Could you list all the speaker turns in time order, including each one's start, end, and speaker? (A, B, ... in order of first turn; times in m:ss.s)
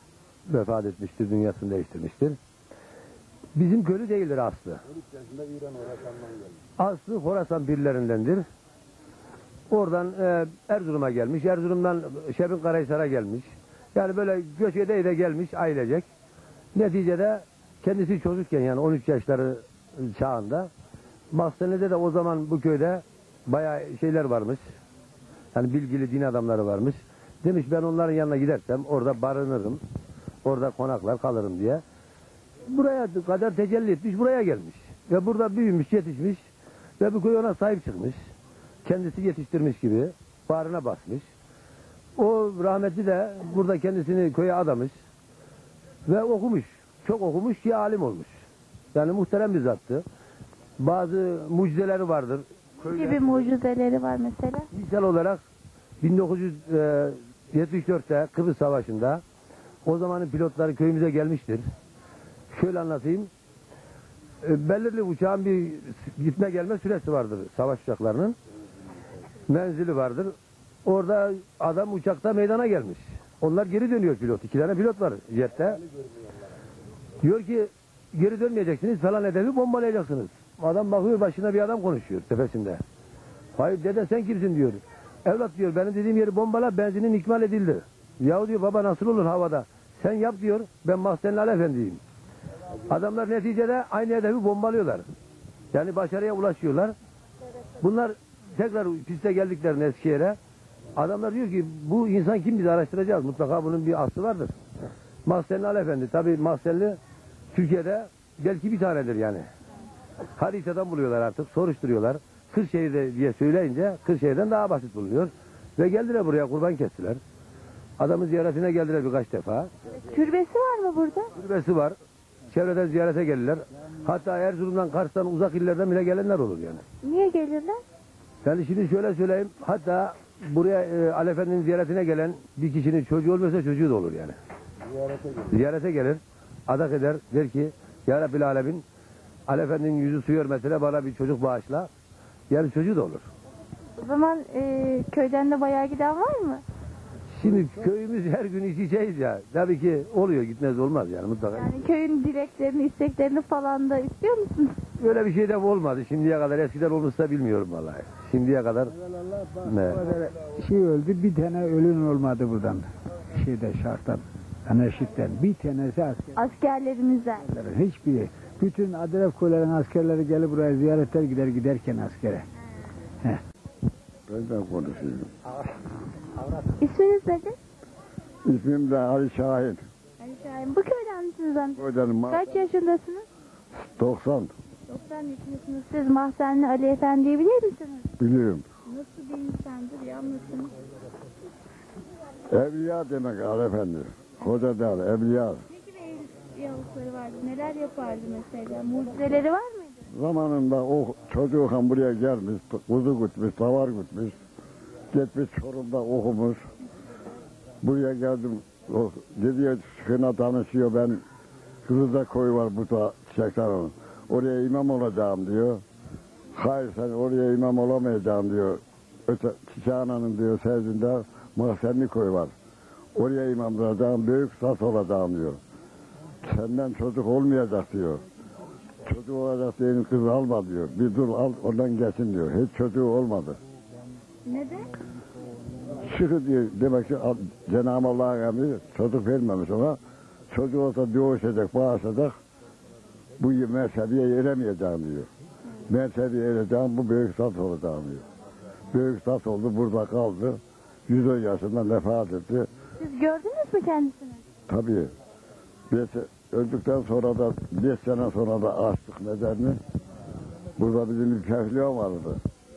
0:00.5-0:02.4 A
0:03.5-0:04.8 A
0:06.8-0:08.4 A
0:09.7-0:16.1 A
0:16.7-0:20.7 A
0:21.3-0:24.6 A
0:25.5-0:29.8 A
0:30.4-0:31.8 A
0:32.7-0:36.4 A
0:37.0-0:38.2 A
0:38.8-0:41.2 A
0:42.2-0:44.9 A
0:46.0-0:48.4 A
0:48.9-0:50.0 A
0:50.8-0:53.2 A
0:52.8-0:54.7 B
0:54.7-0:55.4 A
0:56.0-0:59.2 A
0:59.8-1:01.6 A
1:02.5-1:03.3 A
1:04.4-1:08.4 A
1:09.5-1:10.3 A
1:10.8-1:15.8 A
1:17.2-1:22.8 A
1:23.6-1:32.0 A
1:32.9-1:35.0 A
1:35.7-1:36.9 A
1:37.8-1:40.4 A
1:41.0-1:44.5 A
1:45.2-1:47.0 A
1:47.5-1:49.5 A
1:50.4-1:57.2 A
1:58.0-1:59.7 A
2:00.0-2:01.3 B
2:01.4-2:02.0 A
2:02.5-2:06.8 A
2:07.0-2:07.8 B
2:08.4-2:14.4 A
2:15.3-2:18.8 A
2:19.5-2:21.9 A
2:22.5-2:23.3 A
2:24.0-2:26.6 B
2:27.3-2:31.8 A
2:31.5-2:34.8 B
2:35.0-2:38.9 A
2:39.6-2:40.0 A
2:39.9-2:46.3 C
2:46.3-2:47.4 B
2:47.4-2:52.5 C
2:54.3-2:55.3 D
2:56.7-2:57.6 B
2:58.4-2:59.8 D
3:00.2-3:03.2 B
3:01.8-3:02.5 D
3:04.0-3:04.5 D
3:04.9-3:08.1 B
3:08.2-3:08.6 D
3:08.9-3:10.7 B
3:12.5-3:15.6 D
3:15.7-3:20.0 B
3:20.1-3:24.4 D
3:25.1-3:26.6 D
3:27.8-3:31.2 D
3:31.8-3:35.8 D
3:36.5-3:42.5 D
3:43.1-3:45.6 D
3:46.4-3:48.2 D
3:49.0-3:53.6 D
3:54.5-3:54.9 B
3:56.0-4:00.0 D
4:00.5-4:02.4 D
4:03.4-4:05.3 D
4:05.9-4:08.2 D
4:08.9-4:12.7 D
4:13.0-4:14.4 B
4:14.7-4:15.1 D
4:15.9-4:19.8 D
4:20.8-4:22.4 D